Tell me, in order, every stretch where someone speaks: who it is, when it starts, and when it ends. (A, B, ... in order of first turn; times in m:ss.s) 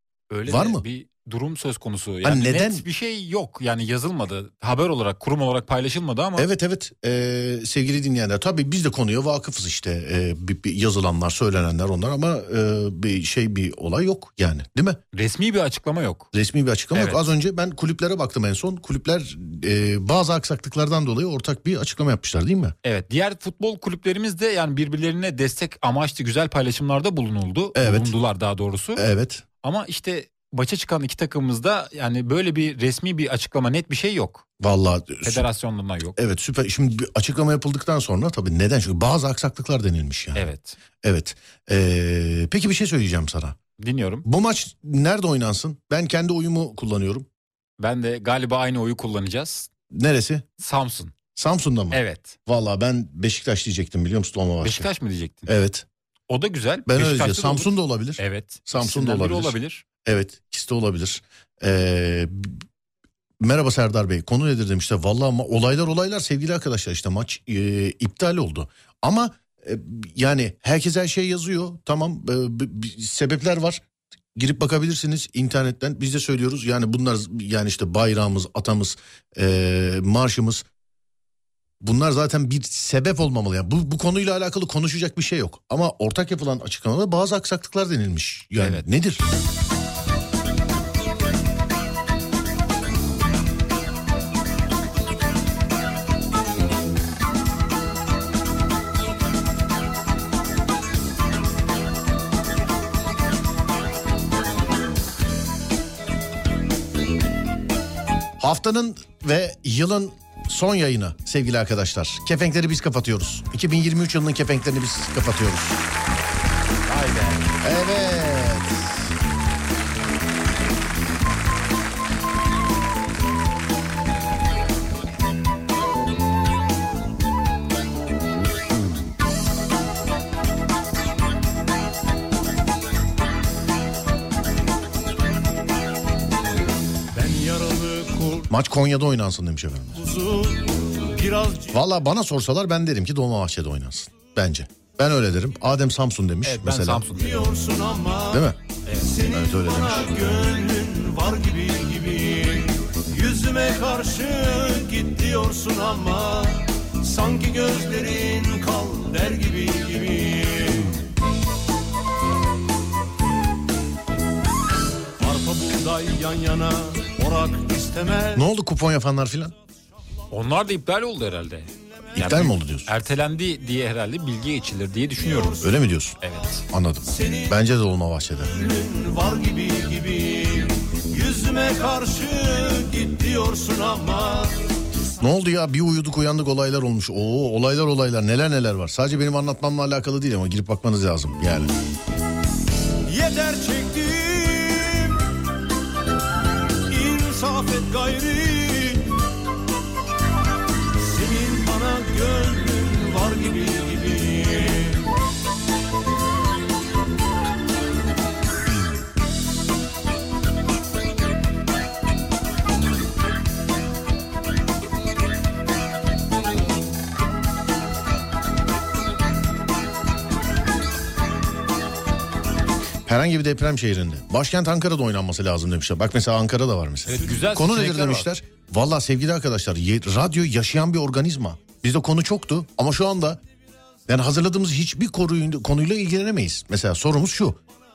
0:00.3-0:06.5 A
0:00.4-0:00.8 B
0:02.2-0:02.8 B
0:06.4-0:15.0 B
0:15.1-0:16.3 A
0:16.3-0:22.7 B
0:16.9-0:17.2 A
0:22.8-0:29.1 A
0:27.7-0:28.1 B
0:29.0-0:29.4 B
0:29.6-0:34.4 A
0:34.6-0:35.4 B
0:35.2-0:36.2 A
0:36.2-0:40.5 B
0:40.3-0:40.8 A
0:41.0-0:43.6 B
0:43.8-0:44.2 A
0:44.2-0:47.3 B
0:47.8-0:49.7 A
0:49.9-0:50.4 B
0:50.6-0:51.1 A
0:51.4-0:54.9 B
0:51.9-0:52.4 A
0:54.6-0:55.6 A
0:55.5-0:55.8 B
0:56.3-0:59.8 A
0:56.9-1:02.6 B
1:03.4-1:13.8 B
1:14.3-1:20.6 B
1:21.8-1:29.2 B
1:28.6-1:28.8 A
1:48.4-1:55.8 B
1:56.9-1:57.5 A
1:57.6-1:59.1 B
2:17.1-2:18.5 C
2:18.5-2:20.0 B
2:19.9-2:21.7 C
2:21.7-2:27.0 B
2:26.4-2:27.5 A
2:27.1-2:28.5 C
2:28.3-2:28.6 B
2:29.0-2:40.9 C
2:29.2-2:30.1 B
2:45.2-2:48.4 C
2:48.3-2:49.5 B
2:50.3-2:55.6 A
2:52.1-2:52.9 B
2:55.2-2:55.7 C
2:55.6-2:56.2 B
2:56.2-2:56.6 A
2:56.7-2:58.5 B
2:57.0-2:57.6 C
2:58.5-3:04.6 C
3:05.2-3:11.7 B
3:13.1-3:15.2 C
3:16.9-3:19.1 C
3:21.0-3:25.1 C
3:43.0-3:53.4 B
3:47.1-3:48.3 A
3:54.1-3:57.6 B